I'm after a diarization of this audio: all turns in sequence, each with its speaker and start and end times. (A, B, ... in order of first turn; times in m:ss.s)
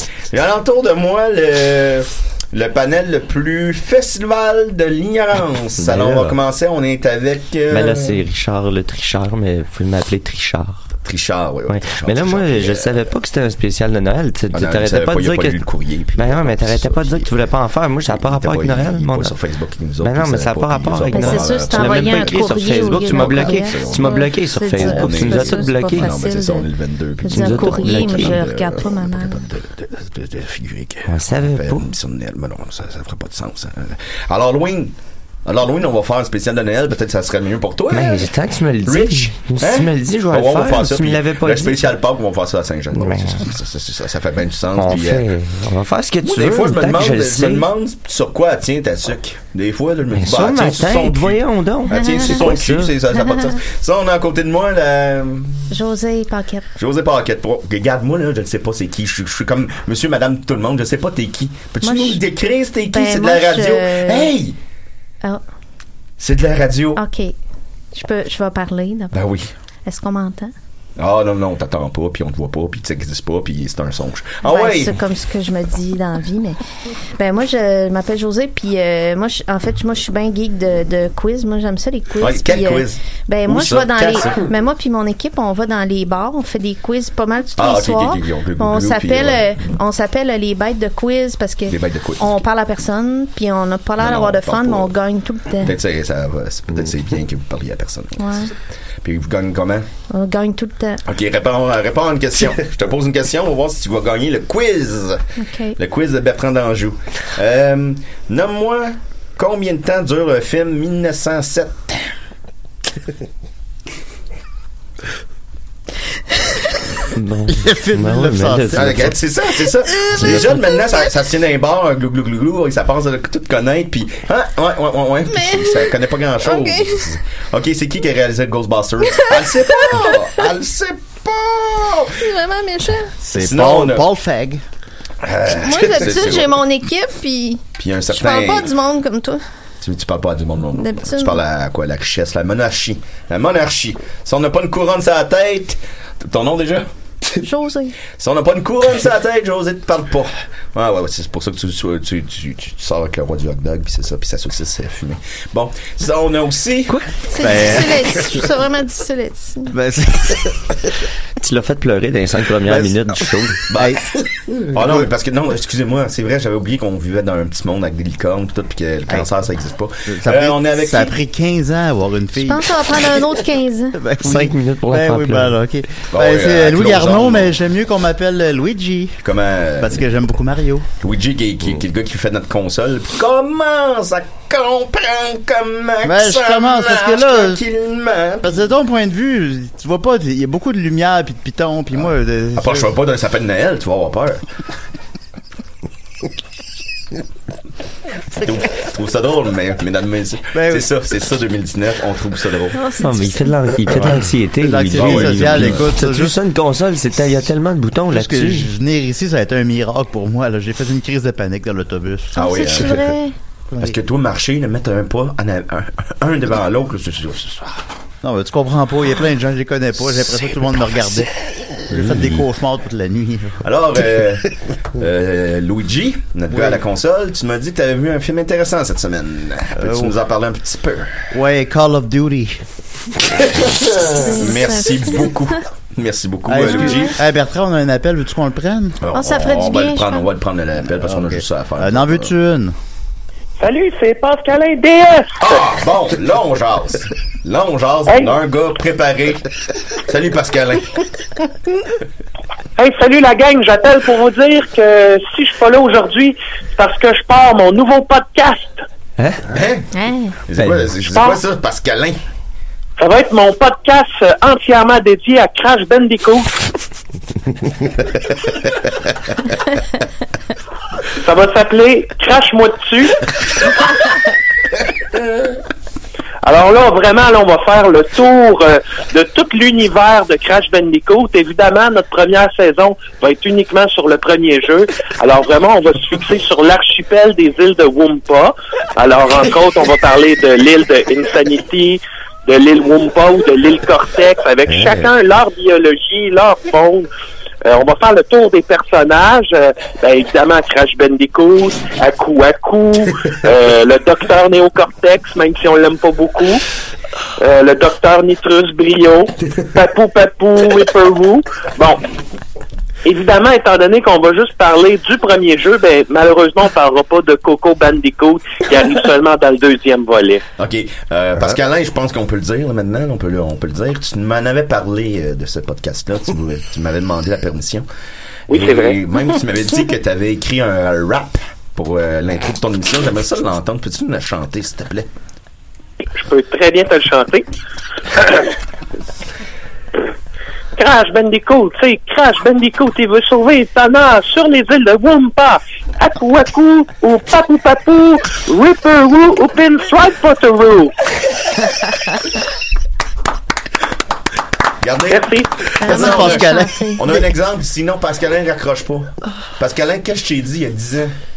0:00.3-0:08.2 A
0:05.8-0:06.4 B
0:07.7-0:10.8 B
0:11.0-0:13.1 A
0:11.7-0:15.6 B
0:14.5-0:17.3 A
0:16.2-0:19.3 B
0:18.1-0:38.3 A
0:20.0-0:26.1 B
0:21.1-0:26.7 C
0:27.2-0:29.4 C
0:27.3-0:28.4 B
0:31.1-0:31.9 B
0:37.9-0:41.9 B
0:38.8-0:45.2 A
0:42.9-0:43.5 B
0:44.8-0:47.7 B
0:46.2-0:55.7 A
0:50.1-0:52.9 B
0:55.7-0:56.6 C
0:56.8-1:04.5 A
1:01.8-1:02.2 C
1:02.9-1:04.3 C
1:06.2-1:07.0 A
1:07.0-1:07.3 C
1:07.9-1:09.2 C
1:09.1-1:09.5 A
1:09.8-1:10.5 C
1:11.0-1:15.0 A
1:14.4-1:16.6 C
1:17.2-1:35.7 C
1:22.2-1:24.4 A
1:27.6-1:29.7 A
1:31.7-1:32.3 A
1:34.0-1:34.9 A
1:35.6-1:38.5 A
1:38.2-1:38.5 C
1:39.0-1:39.9 A
1:40.1-1:41.0 C
1:41.0-1:45.2 A
1:45.4-1:45.8 C
1:45.8-1:52.0 A
1:57.1-1:59.2 B
1:57.5-1:59.1 D
1:58.8-2:12.2 A
2:00.1-2:00.6 B
2:05.3-2:07.2 C
2:09.1-2:10.3 C
2:12.2-2:13.1 C
2:13.2-2:14.6 D
2:13.3-2:14.0 A
2:15.2-2:16.6 A
2:15.5-2:19.4 C
2:17.8-2:18.7 A
2:19.8-2:26.9 A
2:20.8-2:21.4 C
2:27.4-2:28.0 C
2:28.1-2:37.0 A
2:37.2-2:39.7 C
2:37.4-2:37.9 D
2:39.7-2:40.5 D
2:41.4-2:43.6 B
2:42.6-2:44.0 A
2:44.6-2:51.1 A
2:50.1-2:52.7 D
2:52.4-2:54.0 C
2:53.9-2:59.2 D
2:54.2-2:55.6 B
2:56.1-2:57.6 A
2:59.2-3:00.0 A
2:59.8-3:00.9 D
3:01.0-3:08.6 A
3:06.0-3:07.6 D
3:08.4-3:12.9 D
3:12.6-3:14.4 A
3:18.4-3:22.8 A
3:20.5-3:20.8 D
3:22.7-3:23.5 C
3:23.0-3:28.7 B
3:23.9-3:24.2 A
3:24.6-3:26.4 D
3:24.9-3:25.9 A
3:28.1-3:32.4 D
3:32.3-3:33.3 C
3:32.4-3:33.1 A
3:33.8-3:37.8 A
3:38.2-3:41.3 D
3:41.9-3:43.6 D
3:42.1-3:42.4 A
3:43.6-3:51.2 A
3:49.8-3:50.1 D
3:51.3-3:52.6 D
3:54.0-3:57.2 A
3:54.1-3:55.5 C
3:56.5-3:59.0 D
3:56.6-3:57.2 C
3:59.0-4:02.3 A
3:59.1-4:00.2 C
4:01.0-4:02.7 D
4:03.6-4:05.6 E
4:05.4-4:09.5 A
4:08.1-4:08.3 E
4:10.1-4:11.0 A
4:12.8-4:18.8 E
4:19.2-4:19.4 B
4:19.5-4:19.9 A
4:19.9-4:20.4 C
4:20.5-4:22.2 A
4:21.1-4:21.4 E
4:23.0-4:26.6 E
4:31.2-4:33.2 E
4:36.4-4:57.1 E
4:57.6-5:06.6 E
5:07.4-5:12.0 E
5:13.0-5:20.4 E
5:20.6-5:27.9 A
5:28.5-5:29.0 E
5:28.5-5:35.1 A
5:36.1-5:37.4 E
5:38.2-5:38.5 E
5:40.8-5:50.9 E
5:54.8-6:01.1 A
5:55.1-5:55.5 E
5:55.8-5:57.0 C
5:55.8-5:57.2 D